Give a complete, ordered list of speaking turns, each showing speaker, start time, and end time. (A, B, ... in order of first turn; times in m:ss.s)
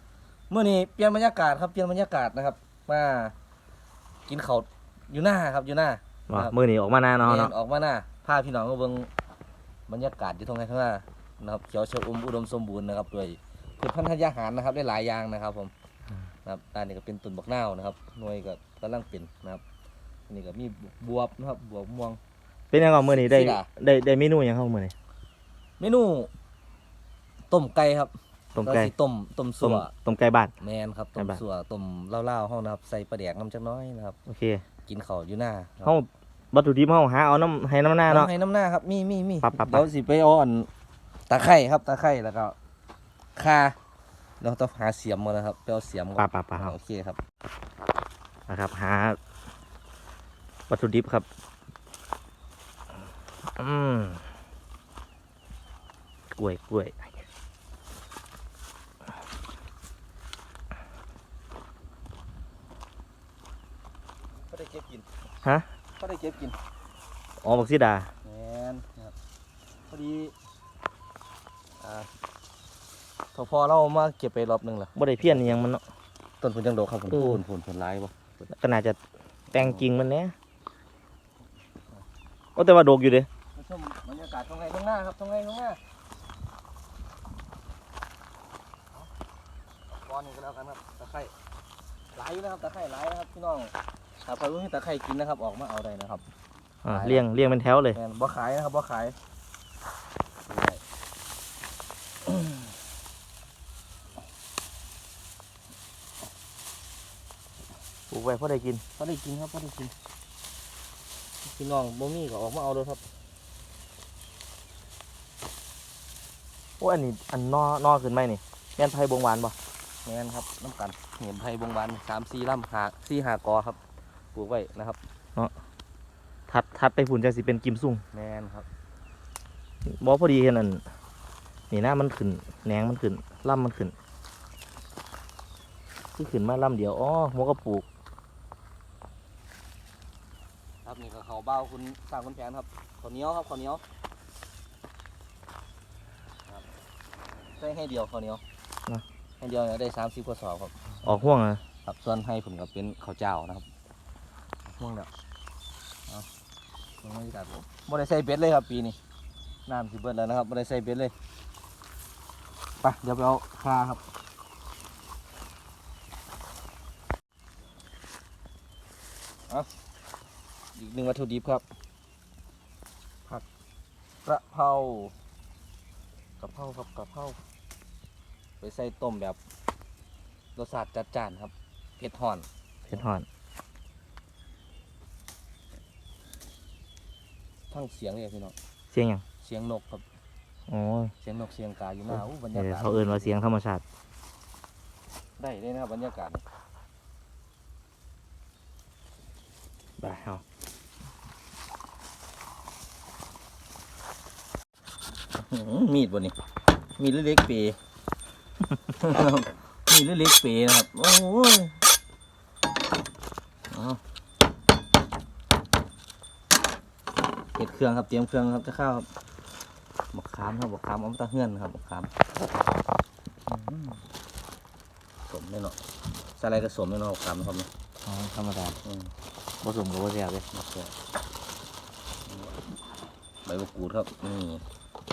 0:00.5-0:03.3 A
0:04.3-0:06.5 A
0:06.3-0:07.5 B
0:07.2-0:09.1 A
0:09.9-0:15.7 A
0:16.4-0:19.6 A
0:20.3-0:22.2 A
0:22.7-0:24.9 B
0:23.0-0:23.7 A
0:25.8-0:26.3 A
0:27.5-0:29.9 A
0:28.6-0:28.9 B
0:29.6-0:30.5 B
0:30.6-0:34.2 A
0:31.2-0:31.4 B
0:34.3-0:34.6 B
0:34.9-0:35.9 A
0:35.8-0:38.3 B
0:38.1-0:40.7 A
0:39.4-0:39.9 B
0:41.3-0:42.5 A
0:43.4-0:43.8 A
0:44.4-0:47.2 A
0:46.2-0:46.7 B
0:48.5-0:49.2 B
0:50.7-0:51.2 B
0:53.6-0:54.2 B
0:56.3-0:57.2 B
1:04.5-1:05.1 A
1:06.0-1:06.6 A
1:07.4-1:08.1 B
1:08.2-1:09.1 A
1:09.9-1:10.3 A
1:11.8-1:12.1 A
1:13.3-1:15.6 A
1:14.9-1:15.8 B
1:16.4-1:18.1 A
1:17.1-1:17.4 B
1:18.5-1:19.0 B
1:19.5-1:20.3 B
1:19.6-1:19.8 A
1:22.6-1:23.3 B
1:23.5-1:25.8 A
1:29.9-1:31.3 A
1:32.1-1:33.7 A
1:34.2-1:36.2 A
1:36.8-1:38.0 B
1:36.9-1:37.2 A
1:37.9-1:39.2 A
1:40.5-1:40.8 A
1:48.1-1:48.8 B
1:49.0-1:49.9 A
1:51.4-1:53.0 A
1:56.8-1:59.5 B
2:00.0-2:03.8 A
2:04.3-2:05.0 A
2:06.5-2:08.0 B
2:08.1-2:08.7 A
2:09.8-2:10.8 B
2:11.7-2:13.9 B
2:16.2-2:17.8 B
2:20.8-2:23.8 A
2:27.6-2:28.4 A
2:29.4-2:30.8 A
2:31.0-2:31.6 B
2:31.8-2:33.7 A
2:34.7-2:35.1 A
2:37.0-2:39.0 A
2:39.7-2:41.1 A
2:42.8-2:44.0 A
2:50.8-2:51.6 A
2:54.2-2:55.1 A
2:56.4-2:57.4 A
2:58.6-2:59.4 A
3:00.6-3:03.0 A
3:02.9-3:03.2 B
3:07.7-3:08.5 A
3:08.9-3:09.2 B
3:09.4-3:10.0 A
3:10.7-3:11.1 B
3:11.2-3:13.3 A
3:12.5-3:13.8 B
3:15.4-3:16.4 A
3:20.0-3:20.4 B
3:25.4-3:26.3 A
3:27.0-3:27.8 A
3:29.0-3:31.8 A
3:33.7-3:34.0 A
3:37.5-3:39.1 A
3:40.1-3:42.1 A
3:43.5-3:44.0 A
3:45.3-3:45.8 A
3:46.4-3:47.7 A
3:48.0-3:48.8 B
3:48.8-3:49.1 A
3:49.6-3:50.4 B
3:50.5-3:50.9 A
3:52.3-3:52.6 A
3:53.4-3:54.6 A